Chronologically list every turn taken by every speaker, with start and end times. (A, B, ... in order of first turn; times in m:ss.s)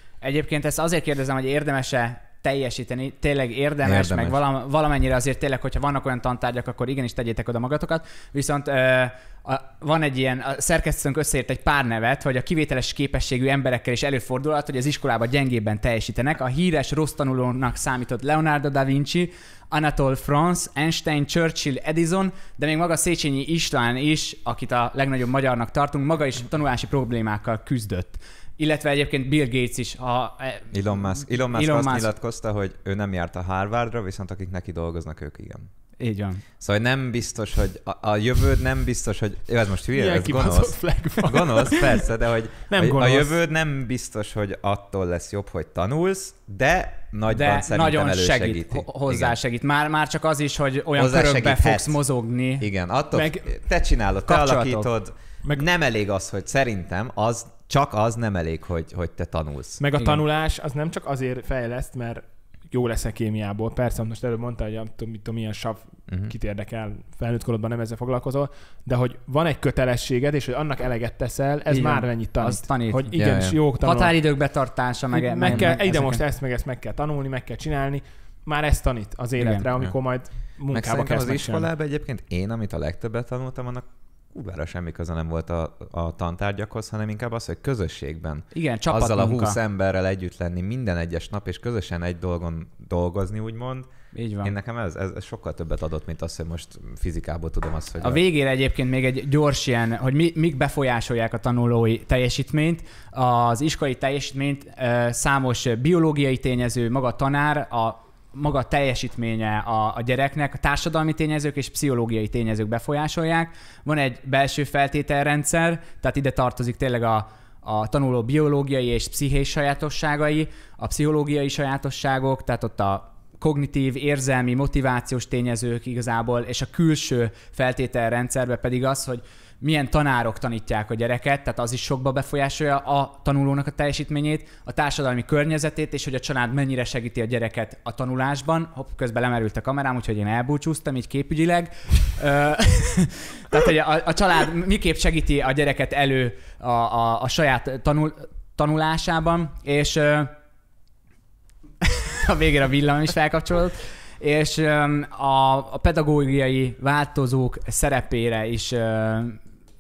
0:00.2-0:32.1 A
0:03.8-0:04.4 B
0:30.7-0:35.7 B
0:36.0-0:36.4 A
0:36.6-0:49.4 B
0:40.0-0:42.0 C
0:42.7-0:43.4 C
0:47.3-0:52.7 A
0:51.0-0:52.0 B
0:52.6-0:59.8 B
0:53.1-0:53.5 C
0:54.3-0:54.9 A
0:59.8-1:14.1 C
1:11.7-1:13.2 A
1:13.2-1:13.6 B
1:13.8-1:16.2 A
1:15.1-1:21.7 C
1:19.4-1:19.7 A
1:20.7-1:33.9 B
1:28.5-1:29.6 A
1:34.1-1:34.5 A
1:34.4-1:38.2 B
1:38.0-2:30.4 A
2:31.8-2:39.4 A